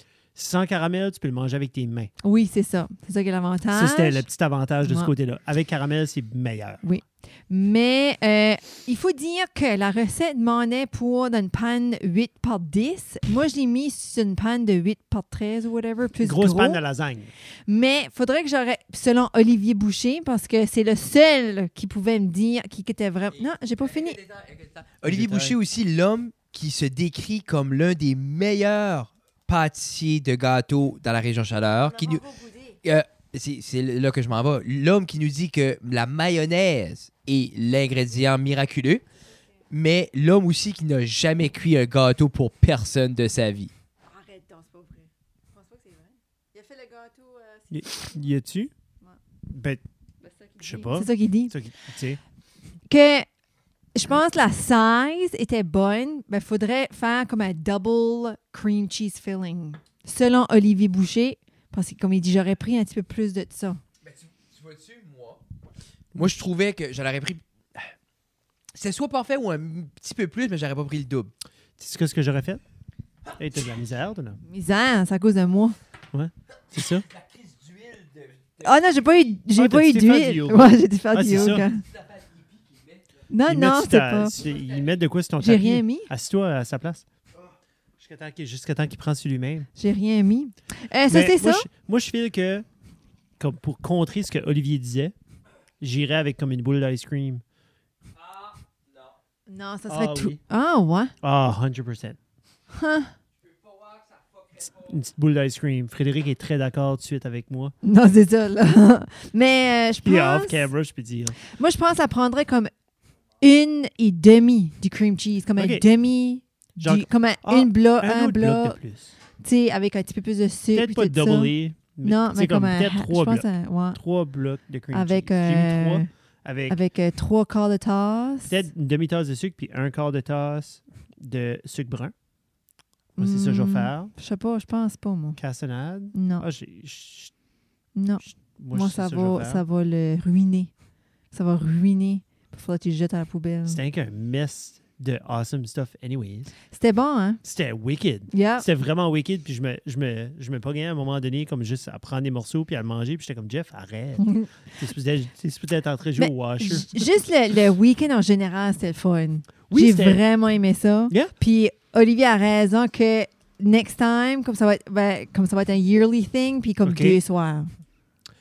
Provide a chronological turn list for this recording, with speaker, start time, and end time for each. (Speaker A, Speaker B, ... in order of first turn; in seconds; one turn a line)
Speaker A: 0.3-2.1
Speaker B: 2.2-4.2
Speaker A: 3.7-6.8
Speaker B: 4.8-5.1
Speaker B: 6.8-16.8
Speaker A: 16.2-17.3
Speaker B: 17.7-24.2
Speaker C: 23.8-32.3
Speaker A: 25.0-25.6
Speaker B: 32.0-32.7
Speaker C: 32.8-39.0
Speaker C: 39.7-43.7
Speaker B: 44.1-47.7
Speaker A: 47.7-48.7
Speaker A: 49.5-49.8
Speaker B: 50.2-51.5
Speaker A: 50.6-52.2
Speaker B: 52.9-53.3
Speaker B: 53.9-63.8
Speaker C: 64.0-65.4
Speaker C: 66.1-67.9
Speaker C: 68.7-71.3
Speaker A: 71.8-72.6
Speaker A: 73.4-74.4
Speaker B: 74.5-75.8
Speaker A: 76.1-77.1
Speaker C: 77.6-78.1
Speaker B: 78.6-81.8
Speaker A: 79.5-81.7
Speaker B: 83.3-84.3
Speaker A: 83.5-87.0
Speaker B: 85.4-86.1
Speaker A: 88.0-89.7
Speaker B: 89.8-91.7
Speaker A: 91.1-92.7
Speaker A: 93.4-95.1
Speaker A: 95.8-97.4
Speaker B: 99.5-101.1
Speaker A: 99.9-100.4
Speaker A: 101.2-102.2
Speaker B: 102.7-103.1
Speaker A: 104.6-107.7
Speaker B: 107.8-110.7
Speaker A: 110.0-111.4
Speaker B: 111.5-112.7
Speaker B: 113.4-118.8
Speaker A: 115.6-115.8
Speaker A: 116.8-119.1
Speaker B: 119.4-124.0
Speaker A: 120.7-126.8
Speaker B: 124.9-126.1
Speaker B: 126.7-128.6
Speaker A: 128.5-132.1
Speaker A: 133.2-134.1
Speaker B: 133.2-135.4
Speaker A: 135.4-137.3
Speaker B: 136.1-136.4
Speaker B: 137.9-140.7
Speaker A: 138.3-139.6
Speaker B: 141.3-143.8
Speaker A: 143.7-146.5
Speaker B: 146.7-147.4
Speaker A: 147.4-157.1
Speaker B: 148.3-148.7
Speaker B: 154.2-154.5
Speaker B: 156.2-167.7
Speaker A: 159.7-160.2
Speaker A: 166.8-167.2